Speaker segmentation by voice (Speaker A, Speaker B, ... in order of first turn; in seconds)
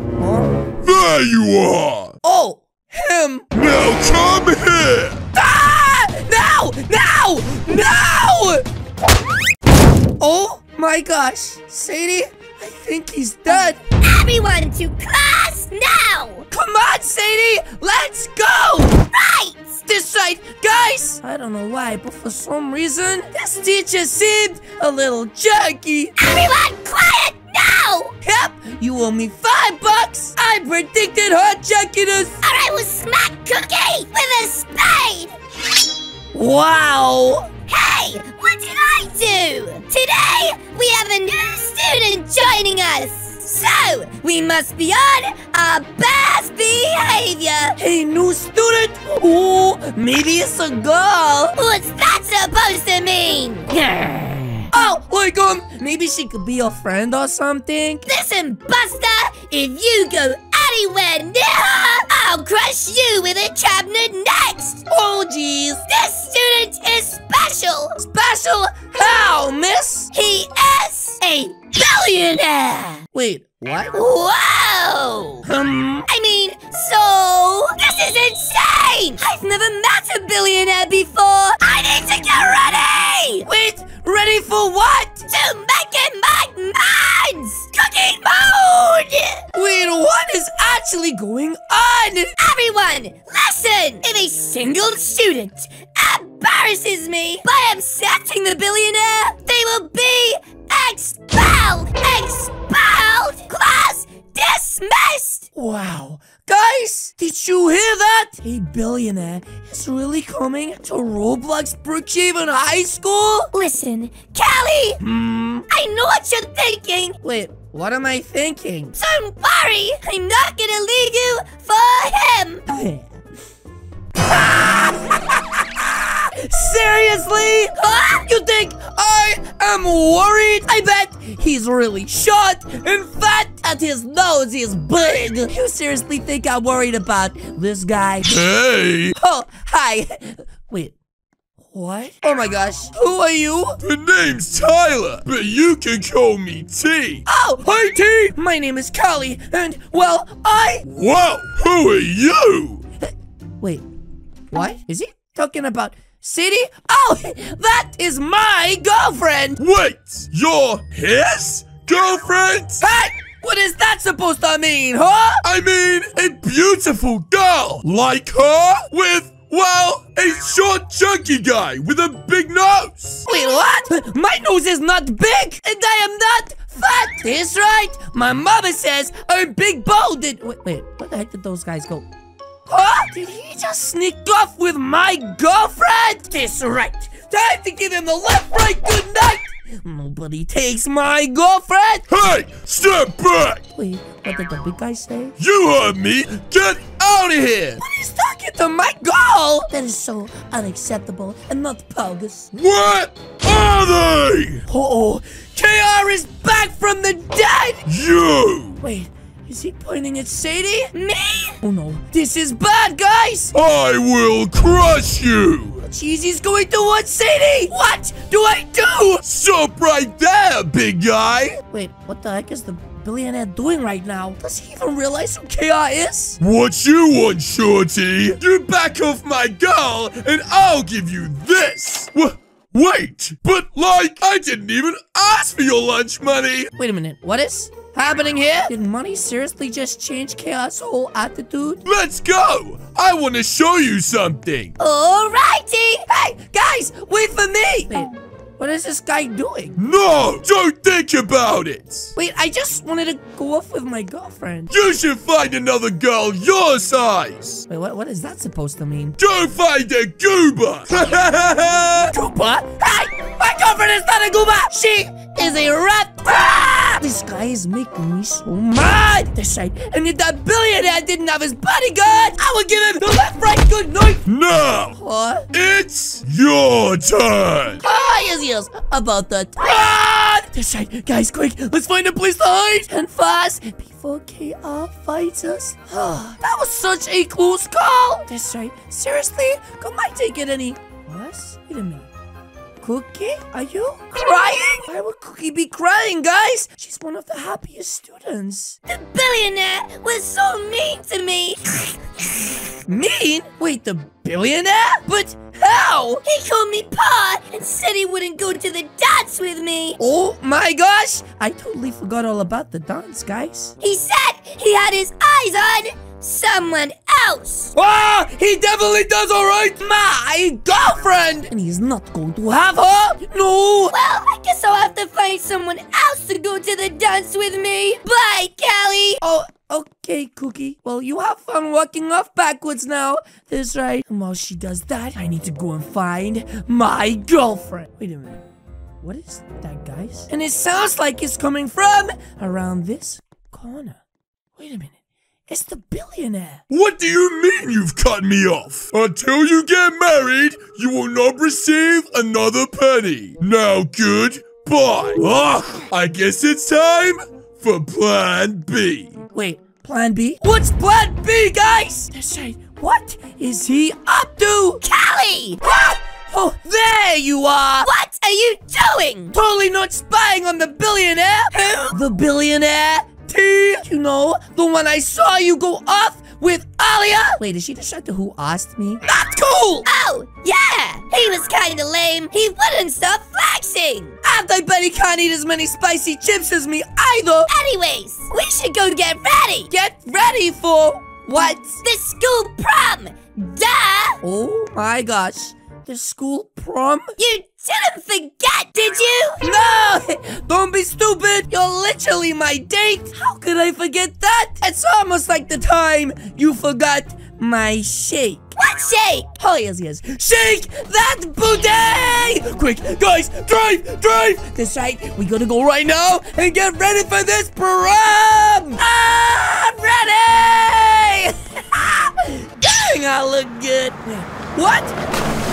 Speaker A: 0.2-0.5, 2.2-3.5, 5.3-8.7, 10.2-13.8, 16.5-19.1, 19.9-26.1, 28.2-32.4, 36.3-37.5, 47.8-51.6, 54.7-58.1, 64.9-65.8, 68.0-70.1, 73.1-74.0, 75.5-76.1, 83.5-85.3, 89.5-92.3, 105.5-113.5, 115.0-115.7, 117.2-119.0, 122.7-123.1, 124.2-138.3, 139.2-140.9, 141.7-143.8, 147.3-150.8, 153.0-153.8, 154.5-159.6, 162.8-165.4, 173.3-182.1, 182.7-192.1, 193.8-195.3, 197.8-202.5, 204.7-207.8, 208.8-210.9, 211.6-213.5, 215.8-219.2, 221.7-226.4, 236.8-241.8, 246.1-249.8, 252.2-254.7, 257.7-259.2, 262.0-274.2, 275.0-275.5, 277.8-292.1, 292.8-298.8, 302.9-306.2, 310.0-313.8, 317.8-323.9, 329.2-338.4, 339.0-344.0, 344.6-345.0, 345.5-346.6, 359.3-364.8, 365.6-367.9, 369.3-379.8, 384.2-387.5, 389.7-391.8, 394.2-397.1, 399.4-408.5, 409.4-425.0
Speaker B: 0.8-2.1, 3.5-5.2, 138.3-139.2, 143.8-147.2, 150.9-152.8, 159.6-162.8, 165.4-173.2, 192.1-193.6, 195.4-197.8, 202.5-204.6, 207.9-208.8, 213.5-215.8, 219.2-221.6, 226.4-236.7, 241.8-244.7, 249.8-252.2, 254.7-257.7, 259.2-262.1, 274.3-275.0, 275.5-277.8, 346.7-359.2
Speaker C: 14.0-16.5, 19.1-19.8, 26.2-28.1, 32.4-35.3, 37.7-47.8, 51.6-54.6, 58.1-64.9, 65.9-68.0, 70.1-73.0, 73.9-75.5, 76.1-83.5, 85.3-89.5, 92.4-105.5, 113.5-115.0, 115.7-117.2, 119.0-122.6, 210.9-211.6, 244.8-246.1, 298.9-301.9, 306.2-310.0, 313.8-317.7, 323.9-329.2, 364.8-365.6, 367.8-369.3, 371.5-372.0, 376.9-377.4, 379.8-384.2, 387.5-389.7, 391.8-394.2, 397.2-399.4, 408.6-409.3